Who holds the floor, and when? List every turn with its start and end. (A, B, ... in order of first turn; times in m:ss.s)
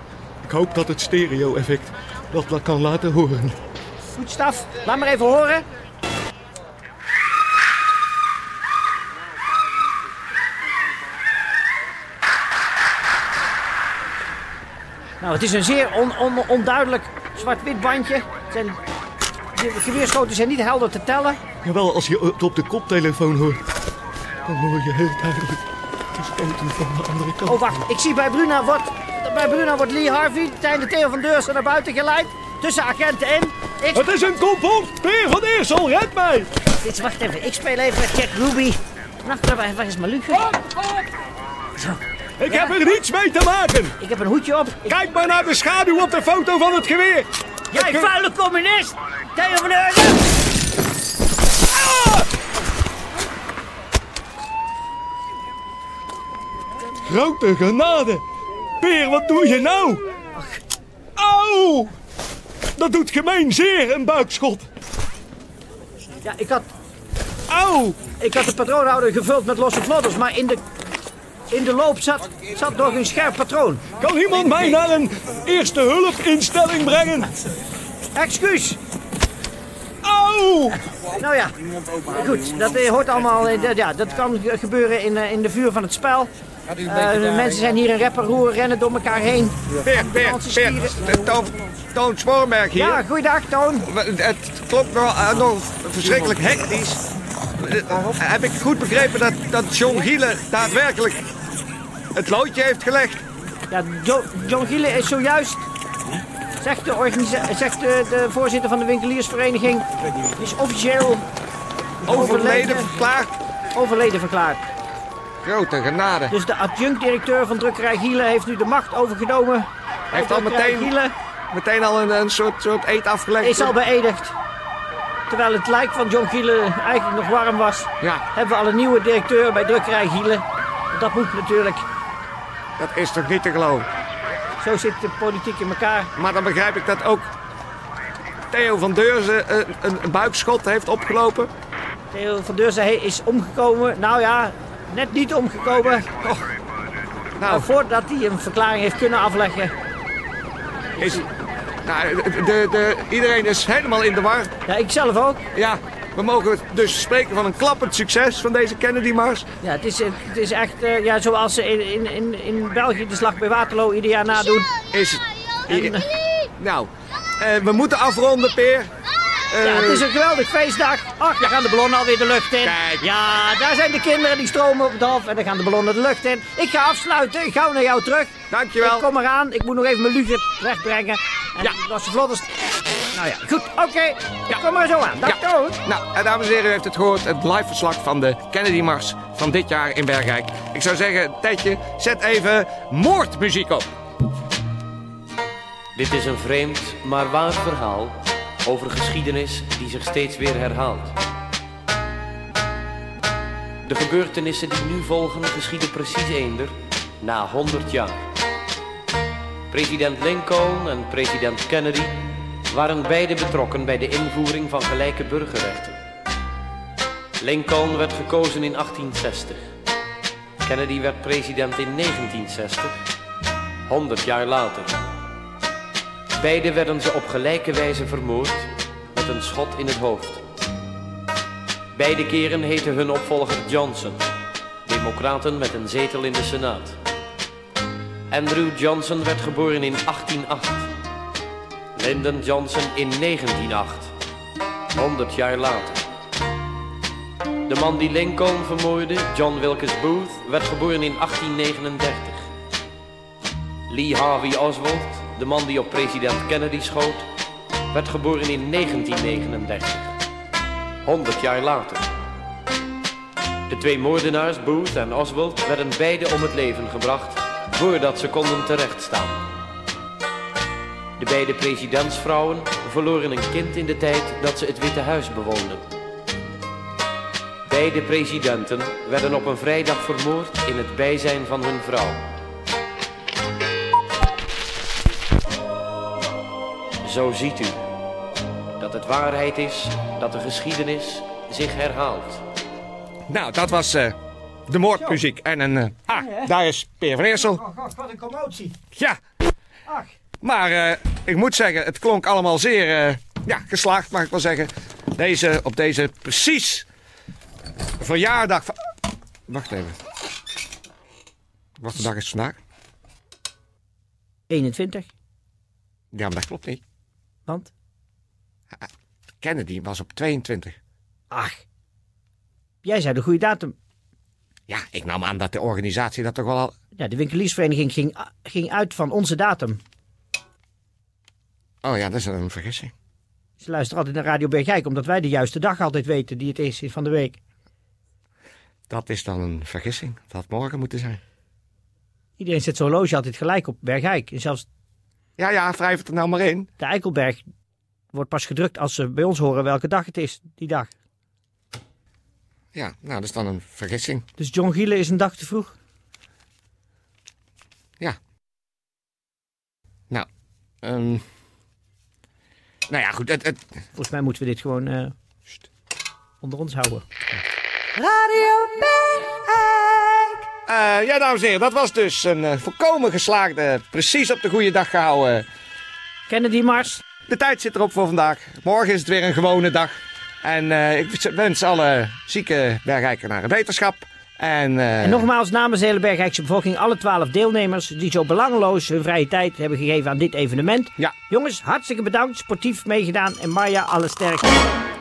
0:00.4-0:03.5 A
0:04.1-0:05.6 B
0:15.2-0:18.8 B
0:19.5-0:21.4 B
0:21.6-0:23.6 A
0:24.5-0:25.6 A
0:26.2-0:27.7 A
0:27.5-0:34.3 B
0:33.9-0:36.5 A
0:36.8-0:40.6 B
0:41.8-0:42.7 B
0:42.4-0:44.0 A
0:44.0-0:45.0 B
0:44.9-0:48.1 A
0:47.7-0:50.3 B
0:51.8-0:52.2 A
0:57.1-0:58.2 A
0:58.8-1:00.0 A
1:00.3-1:00.6 B
1:01.2-1:01.9 A
1:02.8-1:04.6 A
1:06.2-1:06.7 B
1:07.5-1:08.1 A
1:08.1-1:10.6 B
1:11.5-1:13.8 B
1:14.0-1:17.3 A
1:18.1-1:18.8 B
1:20.0-1:20.8 A
1:21.2-1:21.5 B
1:22.1-1:26.3 B
1:26.8-1:31.3 B
1:29.8-1:33.0 C
1:32.7-1:33.9 B
1:33.8-1:37.0 C
1:37.6-1:41.2 C
1:42.1-1:43.2 C
1:43.7-1:45.6 B
1:46.6-1:51.2 B
1:52.0-1:53.0 B
1:52.0-1:53.3 C
1:53.7-1:54.6 B
1:55.4-1:56.3 C
1:56.3-2:01.1 B
2:00.1-2:00.9 C
2:01.5-2:03.7 C
2:03.4-2:04.4 B
2:05.3-2:11.8 B
2:12.8-2:13.9 C
2:14.6-2:16.1 B
2:16.2-2:17.3 C
2:18.5-2:21.5 C
2:22.1-2:26.4 B
2:27.4-2:27.7 C
2:27.5-2:29.7 B
2:31.0-2:31.3 B
2:31.0-2:31.2 C
2:31.8-2:34.5 C
2:34.6-2:35.4 B
2:35.5-2:39.5 C
2:39.6-2:44.7 B
2:44.9-2:46.0 C
2:45.7-2:46.0 B
2:46.6-2:48.9 C
2:49.5-2:50.1 C
2:49.6-3:02.5 B
2:52.6-2:53.1 C
2:58.5-2:59.0 C
3:03.1-3:05.8 B
3:05.2-3:13.8 C
3:16.0-3:21.2 D
3:23.8-3:28.2 D
3:29.7-3:36.0 D
3:37.4-3:39.7 D
3:40.6-3:42.9 D
3:43.9-3:45.0 D
3:46.4-3:50.4 D
3:51.9-3:54.2 D
3:54.8-3:57.0 D
3:58.3-4:00.9 D
4:02.0-4:04.1 D
4:04.9-4:06.0 D
4:07.7-4:12.4 D
4:13.9-4:17.3 D
4:17.9-4:20.1 D
4:21.0-4:22.1 D
4:23.7-4:29.4 D
4:31.2-4:35.9 D
4:37.7-4:42.2 D
4:47.0-4:47.8 D
4:48.8-4:52.4 D
4:53.3-4:54.2 C
4:54.7-4:57.6 C
4:56.1-4:56.5 B
4:57.5-4:58.8 B
4:59.9-5:00.1 B
5:00.4-5:06.8 C
5:08.0-5:08.7 C
5:09.5-5:10.0 C
5:11.8-5:12.6 C
5:14.5-5:15.1 B
5:16.1-5:16.8 C
5:17.4-5:17.7 B
5:19.4-5:20.8 C
5:21.3-5:21.6 B
5:22.8-5:23.7 B
5:24.7-5:26.7 C
5:27.0-5:29.8 B
5:31.8-5:32.9 C
5:33.6-5:37.4 B
5:38.9-5:41.2 C
5:42.4-5:44.6 B
5:45.4-5:46.7 C
5:46.8-5:47.4 B
5:48.1-5:50.9 B
5:52.7-5:54.2 C
5:54.4-5:55.7 B
6:00.8-6:01.2 C
6:02.9-6:03.6 C
6:04.0-6:05.1 B
6:06.4-6:07.0 B
6:08.0-6:10.4 B
6:10.6-6:15.4 C
6:16.3-6:17.0 B
6:17.3-6:25.3 C
6:25.0-6:34.6 B